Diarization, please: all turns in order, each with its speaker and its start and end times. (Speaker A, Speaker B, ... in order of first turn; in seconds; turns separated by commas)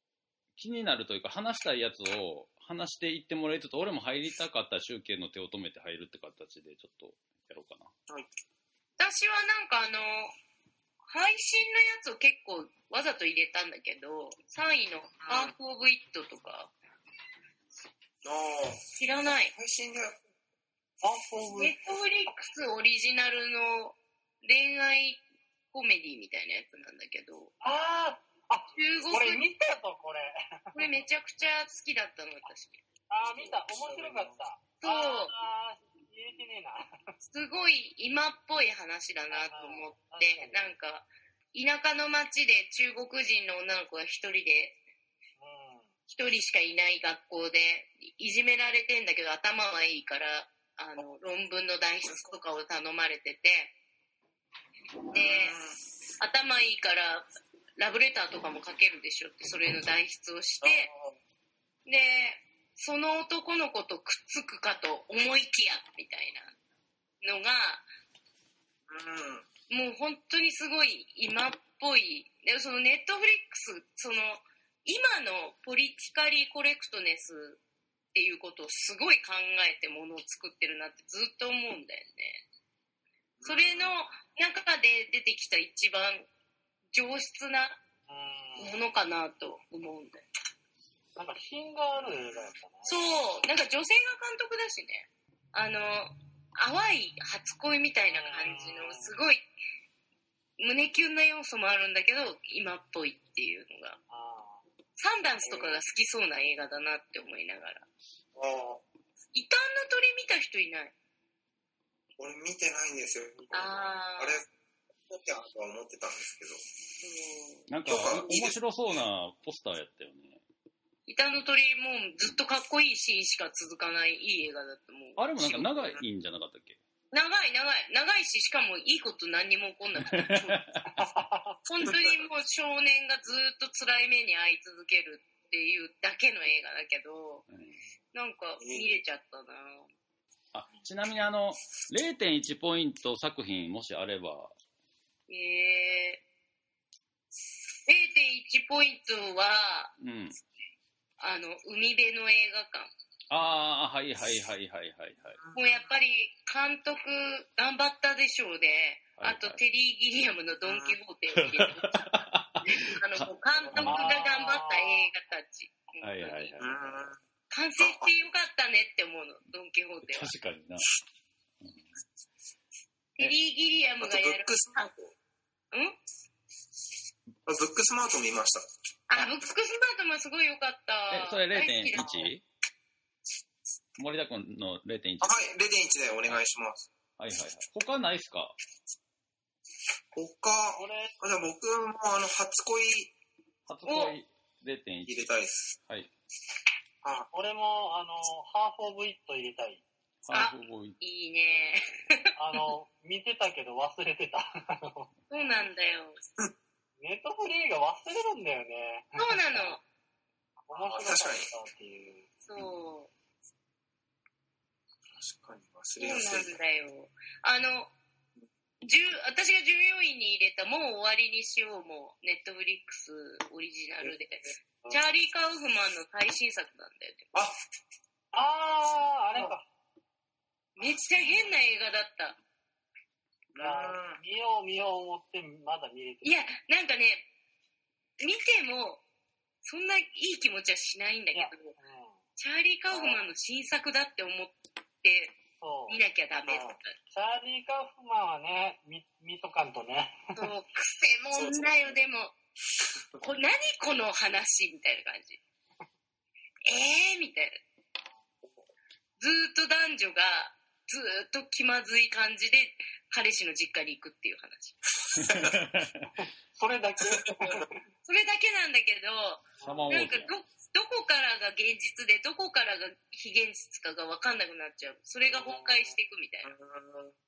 Speaker A: 0.6-7.9, Speaker B: 9.0-10.3, Speaker B: 11.1-16.7, Speaker C: 15.3-15.5, Speaker C: 18.2-20.2, Speaker B: 19.0-19.5, Speaker D: 21.0-21.8, Speaker B: 21.6-27.5, Speaker D: 27.6-30.8, Speaker B: 28.8-29.4, Speaker B: 30.7-32.8, Speaker D: 33.1-36.9, Speaker C: 33.3-34.4, Speaker B: 34.8-35.3, Speaker B: 37.3-44.8, Speaker D: 39.3-40.7, Speaker D: 45.4-45.9, Speaker B: 46.1-53.7, Speaker C: 55.1-55.8, Speaker B: 55.1-55.5, Speaker B: 56.2-57.3, Speaker B: 57.8-60.9, Speaker C: 60.6-61.2, Speaker B: 61.9-66.5, Speaker B: 67.2-67.9, Speaker C: 68.9-69.5, Speaker B: 69.7-77.6, Speaker B: 78.1-82.4, Speaker C: 83.4-84.0, Speaker B: 83.5-86.3, Speaker B: 86.9-87.8, Speaker D: 88.1-88.8, Speaker B: 88.6-90.2, Speaker D: 91.2-92.9, Speaker B: 92.8-99.5, Speaker D: 98.0-99.2, Speaker B: 100.6-104.0, Speaker D: 104.1-104.6, Speaker B: 105.0-107.8, Speaker C: 105.4-105.8, Speaker C: 108.4-108.8, Speaker B: 109.3-110.9, Speaker C: 112.2-114.5, Speaker B: 113.5-114.4, Speaker C: 115.1-116.6, Speaker B: 117.0-117.7, Speaker A: 117.7-120.4, Speaker C: 117.9-118.6, Speaker B: 121.1-126.0, Speaker A: 125.2-126.8, Speaker B: 127.1-130.6, Speaker A: 130.0-130.9, Speaker D: 130.9-131.6, Speaker B: 131.7-137.4, Speaker A: 137.5-137.8, Speaker B: 138.1-139.9, Speaker C: 138.6-138.9, Speaker A: 140.5-144.5, Speaker B: 145.3-146.2, Speaker B: 147.9-149.9, Speaker A: 150.0-150.4, Speaker B: 151.2-152.9, Speaker A: 153.3-155.4, Speaker C: 155.4-155.9, Speaker B: 155.5-166.6, Speaker A: 159.2-159.6, Speaker C: 160.6-161.0, Speaker A: 161.3-164.2, Speaker D: 163.8-165.1, Speaker A: 166.0-167.1, Speaker C: 166.6-167.2, Speaker B: 167.5-170.3, Speaker C: 167.8-168.1, Speaker A: 170.1-170.9, Speaker B: 173.2-174.9, Speaker C: 174.0-175.1, Speaker B: 175.7-176.0, Speaker C: 177.5-178.7, Speaker B: 179.1-182.2, Speaker A: 181.1-182.4, Speaker A: 184.0-185.4, Speaker C: 185.2-186.9, Speaker A: 187.2-188.6, Speaker C: 190.1-193.1, Speaker D: 190.8-191.1, Speaker A: 193.7-195.3, Speaker B: 193.9-194.2, Speaker C: 195.1-195.8, Speaker C: 197.0-197.3, Speaker D: 197.3-199.8, Speaker A: 200.3-201.0, Speaker B: 200.3-202.3, Speaker D: 202.4-205.1, Speaker B: 205.3-206.2, Speaker D: 207.0-209.4, Speaker B: 209.2-209.8, Speaker D: 210.7-212.3, Speaker C: 210.8-211.5, Speaker B: 212.4-213.1, Speaker C: 215.1-216.6, Speaker B: 216.0-217.9, Speaker B: 218.8-227.4, Speaker D: 228.3-229.7, Speaker B: 230.8-232.4, Speaker C: 230.8-231.5, Speaker C: 233.5-234.2, Speaker D: 233.6-236.3, Speaker B: 236.2-237.3, Speaker B: 238.2-239.0, Speaker B: 239.6-241.7, Speaker D: 241.3-242.2, Speaker B: 242.4-245.3, Speaker C: 242.9-243.2, Speaker D: 245.6-246.0, Speaker B: 245.9-247.0, Speaker C: 246.5-246.8, Speaker D: 247.1-250.2, Speaker B: 250.4-252.3, Speaker C: 251.3-252.0, Speaker C: 252.9-253.2, Speaker B: 253.2-255.4, Speaker B: 256.7-257.6, Speaker B: 259.2-264.8, Speaker C: 265.1-265.6, Speaker A: 265.2-266.1, Speaker D: 266.2-267.7, Speaker B: 268.1-276.5, Speaker D: 269.6-269.9, Speaker A: 269.6-270.4, Speaker C: 276.4-277.1